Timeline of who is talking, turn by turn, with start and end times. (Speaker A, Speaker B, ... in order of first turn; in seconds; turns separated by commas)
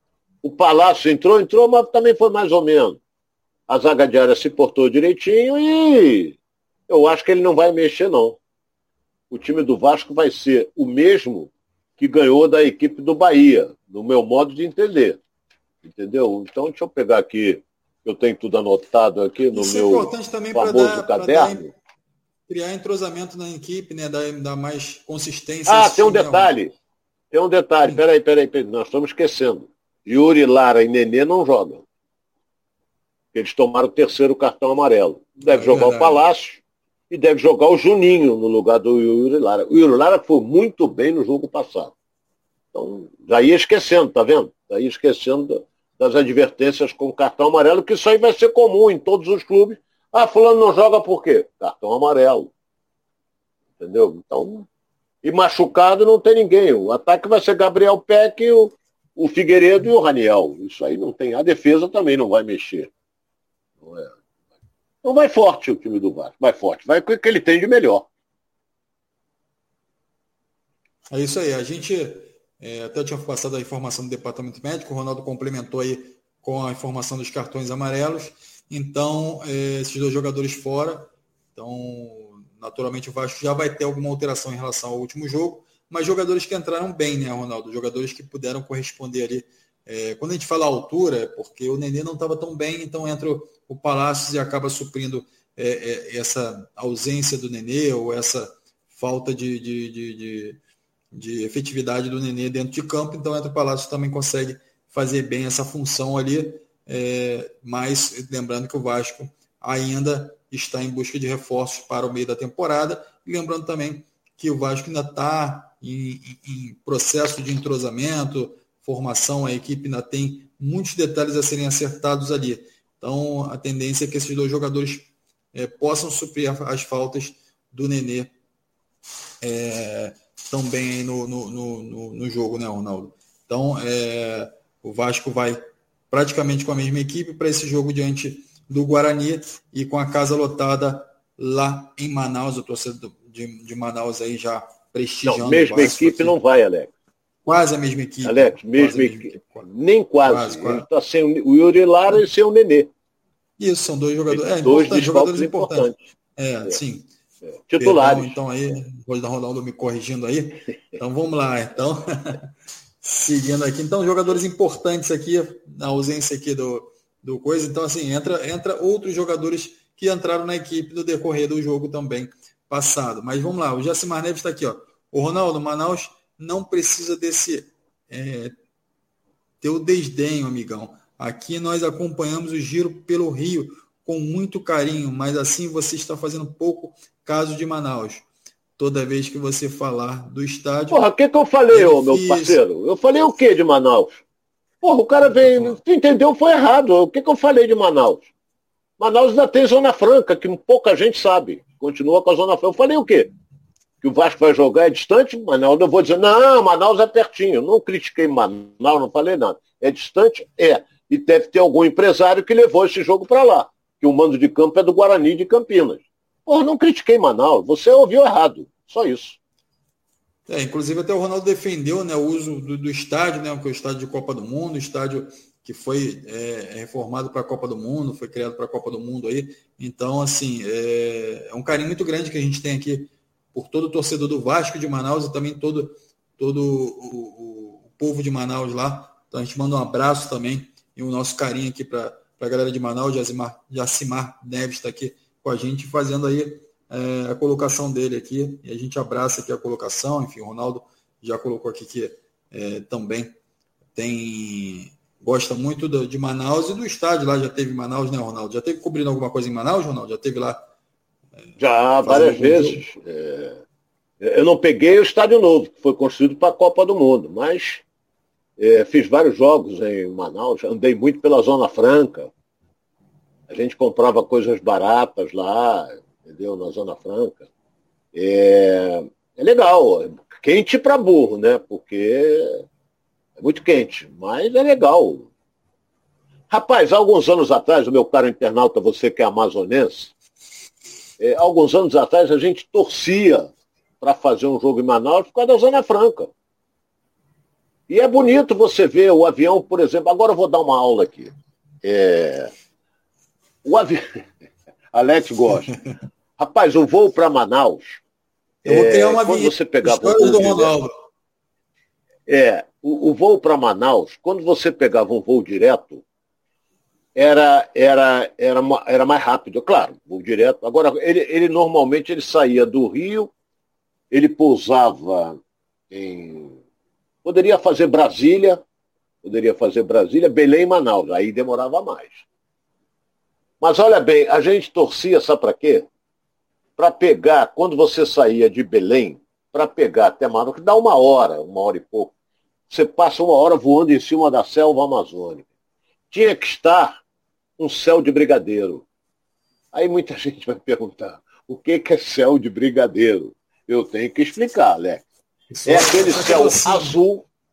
Speaker A: 0.4-3.0, Speaker A: 3.7-6.4, Speaker A: 6.9-8.4, Speaker A: 9.3-15.2, Speaker A: 15.8-21.7, Speaker B: 19.5-21.7, Speaker B: 22.5-26.6, Speaker A: 25.7-26.7, Speaker A: 27.3-31.8, Speaker A: 33.3-41.9, Speaker B: 35.5-36.2, Speaker A: 42.7-52.5, Speaker A: 53.8-54.6, Speaker A: 55.2-62.9, Speaker A: 63.8-64.1, Speaker A: 65.0-68.1, Speaker B: 71.1-100.6, Speaker B: 101.1-128.3, Speaker B: 129.4-146.4, Speaker A: 145.2-146.9, Speaker B: 147.4-149.7, Speaker A: 148.2-152.9, Speaker B: 150.2-150.8, Speaker B: 153.6-157.1, Speaker A: 154.3-156.0, Speaker A: 157.7-158.4, Speaker B: 157.8-162.5, Speaker B: 163.0-178.5, Speaker B: 179.6-188.2, Speaker B: 188.8-191.0, Speaker A: 190.9-194.2, Speaker B: 191.7-192.6, Speaker A: 194.8-198.3, Speaker B: 195.3-195.8, Speaker A: 199.0-203.3, Speaker A: 204.0-219.4, Speaker B: 220.5-253.3, Speaker B: 253.9-260.7, Speaker A: 261.6-263.6, Speaker B: 262.0-262.8, Speaker A: 264.2-267.8, Speaker A: 268.6-272.3, Speaker A: 273.5-277.4, Speaker A: 278.1-282.6, Speaker A: 283.4-285.3, Speaker A: 286.5-290.1, Speaker A: 291.2-296.3, Speaker A: 297.9-302.5, Speaker A: 303.6-304.2, Speaker A: 304.9-305.7, Speaker A: 306.4-308.0, Speaker A: 308.6-310.7, Speaker B: 308.6-310.9, Speaker A: 312.3-316.0, Speaker A: 317.1-323.3, Speaker A: 324.1-325.4, Speaker A: 325.9-326.6, Speaker A: 327.2-328.6, Speaker A: 329.2-332.2, Speaker A: 333.6-335.9, Speaker A: 336.8-342.1, Speaker A: 342.7-345.4, Speaker A: 346.1-347.0, Speaker A: 347.6-348.8, Speaker A: 349.7-355.1, Speaker B: 355.5-357.0, Speaker A: 355.6-357.2